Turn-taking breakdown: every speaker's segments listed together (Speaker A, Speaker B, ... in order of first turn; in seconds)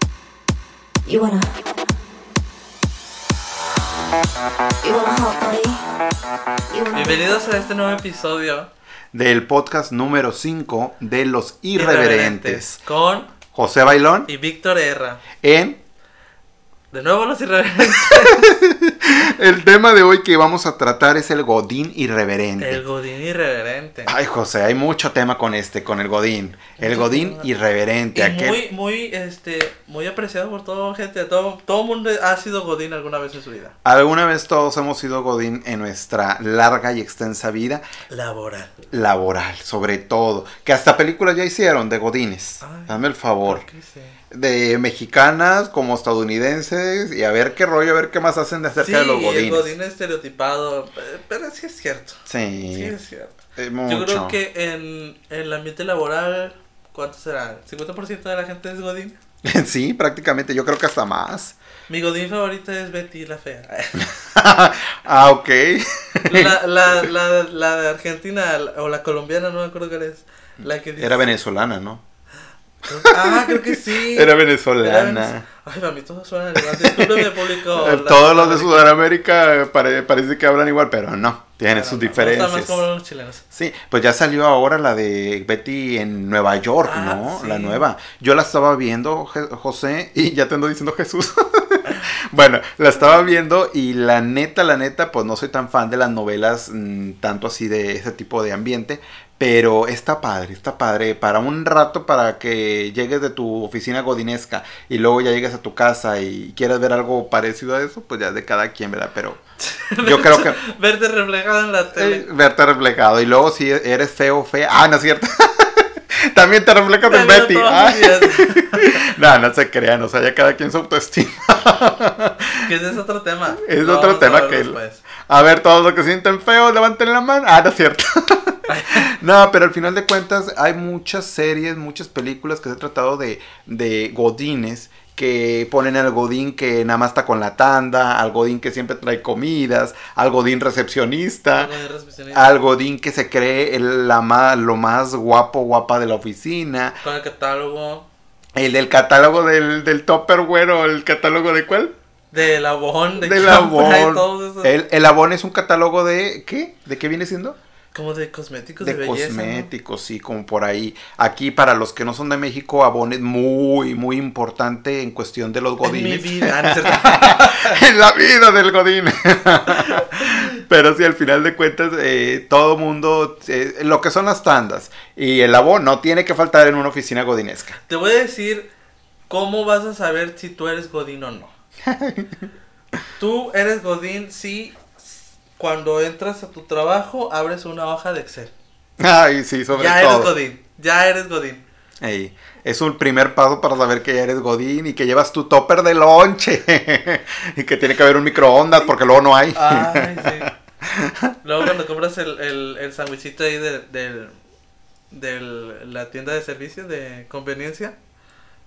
Speaker A: 1.1-1.9, 4.8-5.9, 6.7-7.4
Speaker B: 6.9-8.7, 11.8-13.3, 14.3-15.2, 16.9-18.5, 22.6-24.1, 26.8-27.5, 28.1-33.8, 38.1-38.7, 42.6-44.2, 48.8-52.2, 52.7-59.2, 61.9-64.0, 66.3-71.3, 72.8-79.0, 81.7-83.4, 86.8-87.9, 109.6-112.3, 117.0-119.1, 122.6-125.0, 128.7-129.1, 141.6-142.6, 147.0-148.1, 152.3-154.7, 157.9-159.7, 165.8-167.8, 169.8-170.4, 177.9-178.7, 179.3-181.5, 183.2-188.5, 189.7-191.6, 199.6-200.5, 201.4-204.4, 205.1-207.9
Speaker C: 9.1-12.8, 13.5-14.3, 15.4-15.8, 17.9-22.8, 24.1-28.6, 33.8-37.8, 38.9-43.6, 44.3-49.7, 52.3-53.0, 53.6-54.4, 59.4-61.6, 64.0-67.1, 71.0-72.0, 73.0-75.5, 76.6-82.8, 83.5-109.4, 110.0-110.6, 111.9-122.5, 123.6-141.7, 142.3-147.0, 148.6-151.9, 153.2-157.6, 158.8-177.8, 181.8-182.5, 189.0-190.4, 192.0-201.3